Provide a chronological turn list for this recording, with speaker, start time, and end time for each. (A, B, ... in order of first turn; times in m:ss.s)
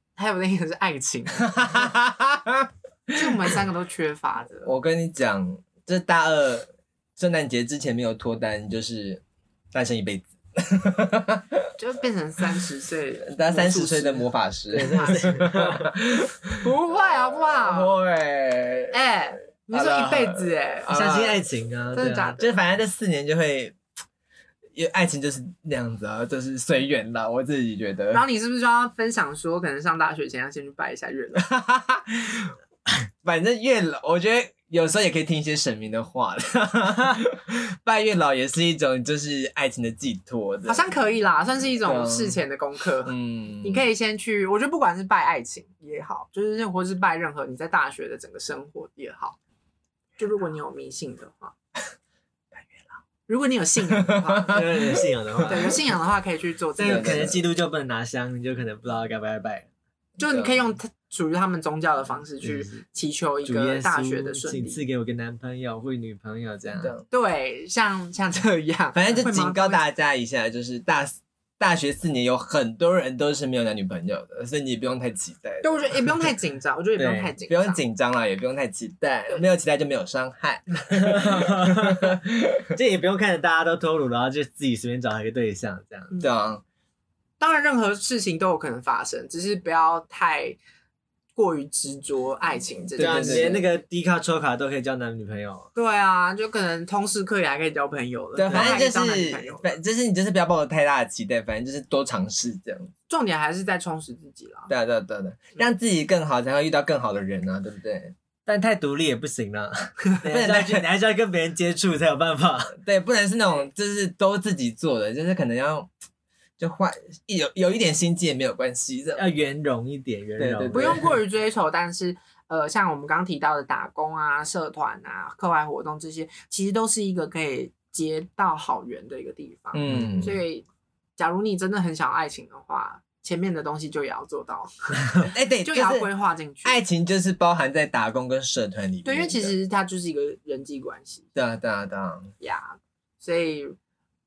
0:00.2-0:01.9 A
0:01.4-0:03.1 B
0:03.1-0:04.8 A
0:04.6-0:11.6 B
0:11.8-0:15.3 A
0:13.2-0:19.0 B
0:14.7-0:15.9 C
0:16.6-0:18.0 A
0:18.9-0:20.9 A
0:19.7-0:21.4 B
0:20.9-0:22.3 C
0:21.9-0:22.6 A
0:22.4-0:23.8 B
0:24.8-0:28.2 B
0:28.1-0:31.5 A
0:31.4-0:32.6 B
0:33.2-0:41.0 B
0:40.7-0:49.4 A
0:41.8-0:42.4 B
0:43.0-0:43.8 B
0:50.2-0:51.5 A
0:53.3-0:54.7 A
0:54.0-0:54.6 B
0:54.5-0:55.8 C
0:55.5-0:57.3 A
0:56.8-0:59.7 C
0:56.8-0:57.4 B
1:00.2-1:00.6 B
1:00.2-1:04.8 A
1:02.4-1:02.8 C
1:03.4-1:06.9 C
1:06.8-1:07.1 B
1:07.1-1:09.8 A
1:08.9-1:16.1 B
1:15.6-1:17.8 A
1:17.0-1:17.3 C
1:17.5-1:22.7 B
1:21.0-1:22.2 C
1:22.7-1:26.1 C
1:26.2-1:26.6 B
1:27.4-1:30.6 A
1:31.4-1:33.6 A
1:32.9-1:33.7 B
1:33.0-1:35.7 C
1:35.8-1:39.8 A
1:38.4-1:42.9 B
1:38.5-1:38.8 C
1:43.1-1:44.7 A
1:44.7-1:48.1 B
1:48.4-1:52.8 C
1:50.2-1:50.8 B
1:52.8-1:55.9 B
1:56.6-1:59.2 B
1:59.2-2:01.0 C
2:00.4-2:01.2 B
2:00.7-2:10.7 A
2:09.7-2:10.4 B
2:09.9-2:10.4 C
2:11.2-2:16.8 A
2:15.3-2:16.1 B
2:16.6-2:19.5 B
2:19.0-2:21.3 A
2:21.4-2:22.3 B
2:22.4-2:23.8 A